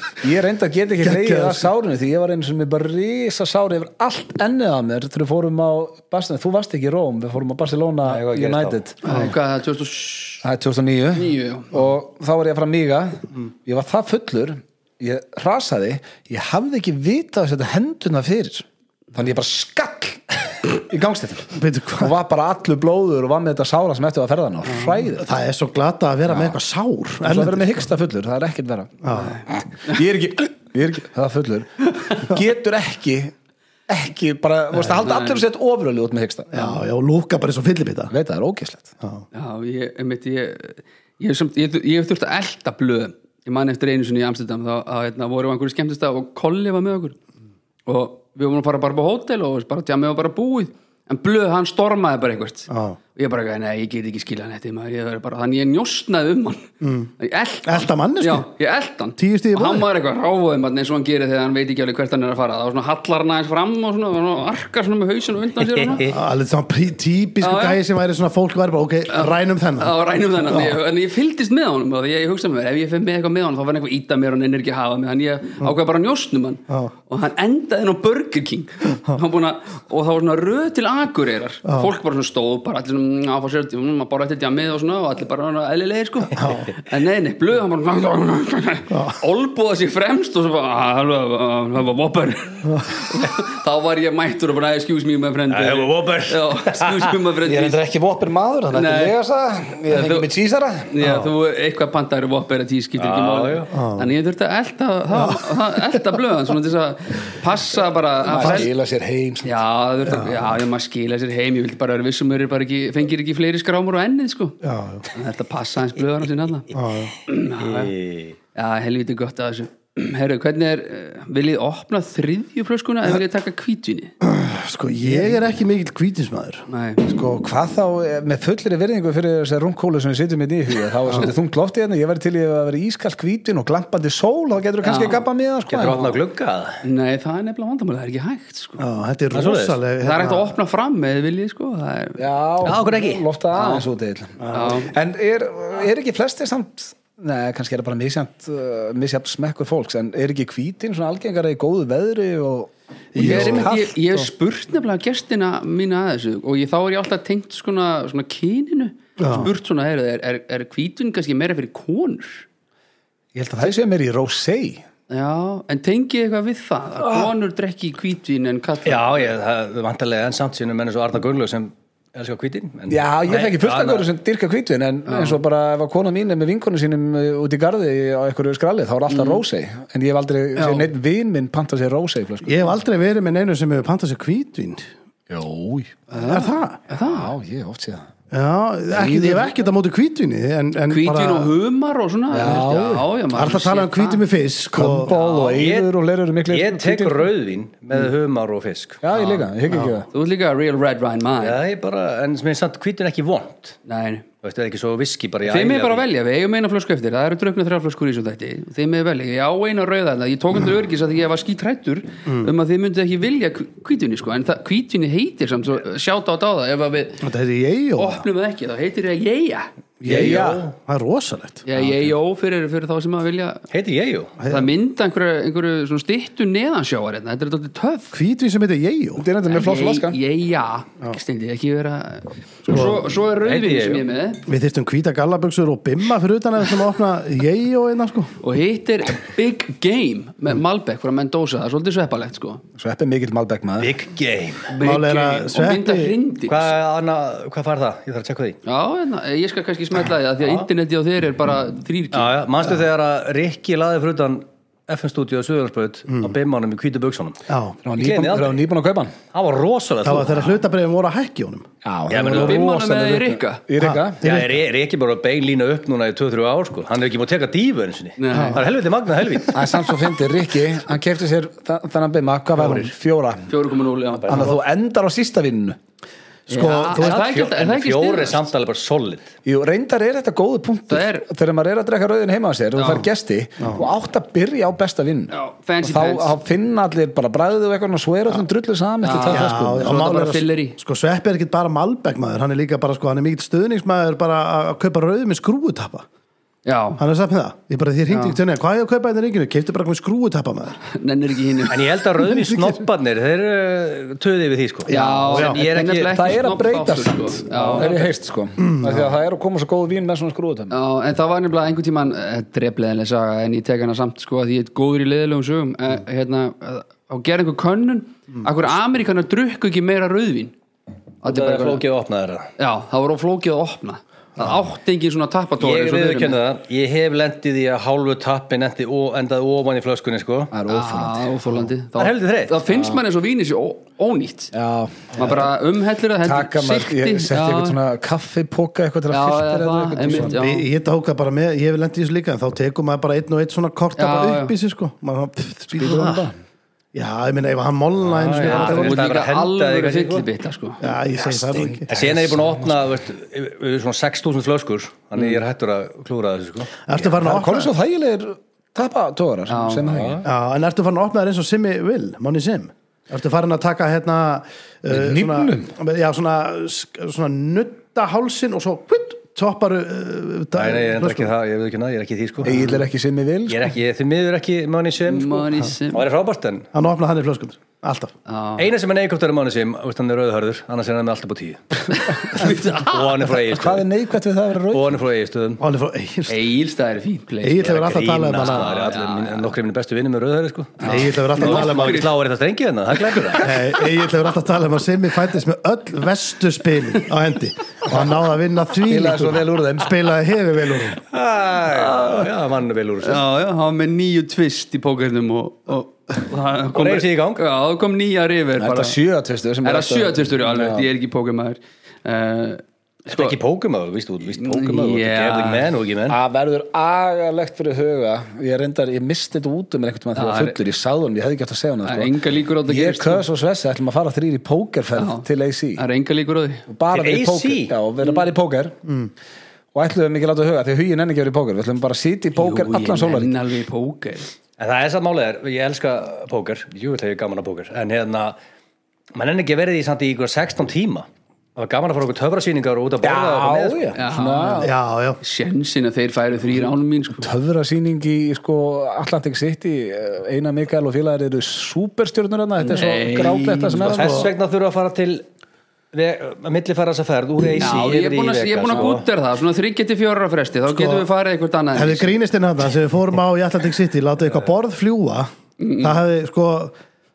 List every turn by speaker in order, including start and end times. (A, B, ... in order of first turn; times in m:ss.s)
0:00.2-0:09.3 A
0:01.0-0:01.7 B
0:08.0-0:08.8 C
0:09.0-0:10.4 D
0:10.4-0:25.3 A
0:11.1-0:11.7 D
0:21.5-0:22.1 B
0:24.7-0:25.1 D
0:25.2-0:27.8 B
0:27.2-0:33.3 A
0:29.0-0:29.4 B
0:29.1-0:30.0 D
0:33.9-0:36.5 A
0:34.7-0:35.4 D
0:36.5-0:38.1 B
0:38.1-0:38.9 A
0:39.3-0:47.2 D
0:47.8-1:06.1 D
0:52.7-0:53.0 B
0:56.8-0:57.1 B
0:57.6-0:58.4 B
0:59.2-0:59.9 B
1:05.6-1:06.1 C
1:06.0-1:10.7 B
1:07.4-1:07.8 D
1:09.1-1:37.8 D
1:21.6-1:21.9 B
1:26.4-1:26.7 B
1:28.9-1:29.2 B
1:35.5-1:37.2 C
1:37.4-1:40.9 A
1:38.7-1:39.2 D
1:39.9-1:40.3 D
1:40.9-1:48.7 D
1:43.0-1:43.7 C
1:43.7-1:44.1 B
1:45.2-1:45.5 B
1:48.2-1:49.6 A
1:49.4-1:54.6 D
1:50.1-1:50.4 B
1:54.6-1:55.0 B
1:55.1-1:56.7 D
1:56.7-1:57.1 B
1:57.2-1:57.9 D
1:57.6-1:58.4 C
1:58.5-2:04.1 D
2:04.2-2:06.6 B
2:05.0-2:05.4 A
2:06.7-2:07.0 D
2:07.0-2:16.2 A
2:14.8-2:15.2 D
2:15.7-2:16.8 C
2:16.8-2:18.8 D
2:18.8-2:20.5 B
2:19.3-2:19.8 C
2:20.0-2:22.2 D
2:22.2-2:34.3 A
2:22.6-2:23.2 C
2:23.5-2:23.8 D
2:24.4-2:24.7 B
2:24.5-2:24.9 D
2:33.1-2:33.7 B
2:33.2-2:42.4 D
2:39.2-2:39.5 B
2:43.3-2:44.8 A
2:45.1-2:49.1 D
2:47.0-2:47.3 A
2:48.8-2:54.1 C
2:52.9-3:02.6 A
2:55.1-2:55.4 D
2:59.1-2:59.4 D
3:00.6-3:00.9 D
3:02.4-3:04.9 B
3:05.3-3:06.0 A
3:06.1-3:06.8 B
3:06.1-3:07.3 D
3:06.9-3:08.1 A
3:08.3-3:11.5 B
3:08.9-3:09.5 A
3:10.9-3:14.2 D
3:12.3-3:13.1 A
3:13.3-3:15.1 B
3:14.7-3:17.3 A
3:15.0-3:15.6 D
3:15.5-3:15.9 C
3:16.5-3:19.0 C
3:19.0-3:20.1 A
3:19.1-3:19.5 D
3:20.1-3:21.6 D
3:21.4-3:23.8 C
3:23.8-3:24.2 D
3:24.4-3:26.0 C
3:25.4-3:37.2 D
3:37.2-3:38.2 B
3:38.0-3:39.7 D
3:40.0-3:41.7 B
3:40.0-3:40.7 A
3:40.1-3:40.6 C
3:41.7-3:43.6 D
3:43.7-3:44.3 C
3:44.4-3:44.7 B
3:44.5-3:48.1 D
3:48.1-3:49.2 B
3:49.2-3:50.2 A
3:49.5-3:54.4 D
3:52.7-3:53.1 B
3:53.4-3:54.0 C
3:54.4-3:58.3 B
3:58.4-4:02.6 D
4:02.8-4:03.9 A
4:03.8-4:04.7 C
4:04.7-4:06.7 D
4:04.8-4:06.2 B
4:06.5-4:08.6 C
4:08.6-4:12.3 D
4:10.4-4:10.7 C
4:12.1-4:17.4 C
4:16.1-4:16.3 B
4:17.5-4:17.8 B
4:17.8-4:19.1 A
4:17.9-4:18.6 C
4:19.3-4:20.5 C
4:20.0-4:21.7 B
4:21.8-4:24.3 A
4:22.1-4:22.6 C
4:22.3-4:23.6 D
4:23.8-4:24.4 B
4:24.2-4:29.8 C
4:28.2-4:28.6 D
4:28.3-4:28.6 B
4:29.5-4:33.5 A
4:32.6-4:32.9 B
4:33.5-4:34.6 D
4:34.2-4:35.8 A
4:36.5-4:37.2 B
4:36.5-4:38.4 D
4:36.9-4:39.3 C
4:39.4-4:50.0 A
4:40.9-4:41.2 D
4:42.8-4:43.1 D
4:45.3-4:46.3 D
4:49.0-4:50.8 D
4:49.2-4:56.0 B
4:56.6-4:57.0 D
4:57.0-5:00.8 B
4:58.1-4:58.4 D
5:00.9-5:01.8 D
5:01.7-5:06.3 C
5:02.3-5:02.8 B
5:04.8-5:05.6 B
5:04.9-5:08.1 D
5:06.1-5:10.8 A
5:08.6-5:09.1 B
5:10.7-5:20.5 D
5:21.2-5:21.8 D
5:21.2-5:22.5 C
5:22.6-5:26.4 D
5:25.6-5:30.5 C
5:30.5-5:31.4 A
5:30.7-5:34.5 D
5:32.0-5:32.6 C
5:32.7-5:33.0 A
5:34.5-5:35.5 A
5:35.2-5:37.8 D
5:36.2-5:40.4 A
5:39.1-5:40.7 D
5:40.2-5:46.2 B
5:44.0-5:44.5 D
5:45.7-5:46.4 A
5:46.9-5:49.0 B
5:48.0-5:50.3 C
5:48.4-5:50.8 D
5:50.8-5:51.9 B
5:51.4-5:52.7 A
5:51.9-5:56.7 C
5:56.8-5:57.7 B
5:57.0-6:00.2 A
5:59.5-6:00.0 D
6:00.2-6:11.3 B
6:04.9-6:05.7 A
6:10.5-6:12.6 C
6:12.4-6:13.7 A
6:13.5-6:16.7 C
6:15.1-6:16.0 D
6:16.7-6:18.1 B
6:18.3-6:18.7 D
6:18.6-6:23.8 C
6:22.3-6:23.2 D
6:23.4-6:25.0 A
6:24.7-6:25.6 C
6:25.6-6:26.4 B
6:26.3-6:29.5 D
6:27.4-6:28.7 B
6:27.8-6:33.5 C
6:30.8-6:32.1 D
6:30.8-6:32.1 B
6:33.4-6:41.0 B
6:38.8-6:39.9 A
6:41.1-6:43.2 C
6:41.7-6:42.3 D
6:43.0-6:49.0 D
6:46.7-6:47.4 C
6:48.6-6:50.9 A
6:49.6-6:53.3 D
6:53.1-6:56.2 C
6:54.3-6:55.7 D
6:56.1-7:05.8 A
7:00.1-7:00.6 D
7:01.8-7:03.2 D
7:05.0-7:05.2 D
7:05.8-7:06.6 D
7:06.7-7:08.8 A
7:06.9-7:07.7 C
7:08.0-7:08.3 D
7:08.8-7:09.1 B
7:09.7-7:13.4 A
7:12.4-7:14.3 D
7:14.6-7:18.4 C
7:19.1-7:23.9 C
7:23.0-7:24.7 A
7:24.0-7:27.3 D
7:24.6-7:25.2 B
7:27.2-7:34.3 A
7:32.6-7:33.9 D
7:33.8-7:34.3 B
7:33.8-7:35.2 C
7:35.9-7:39.0 C
7:37.6-7:42.1 D
7:40.7-7:41.0 B
7:41.7-7:46.7 B
7:45.6-7:45.9 D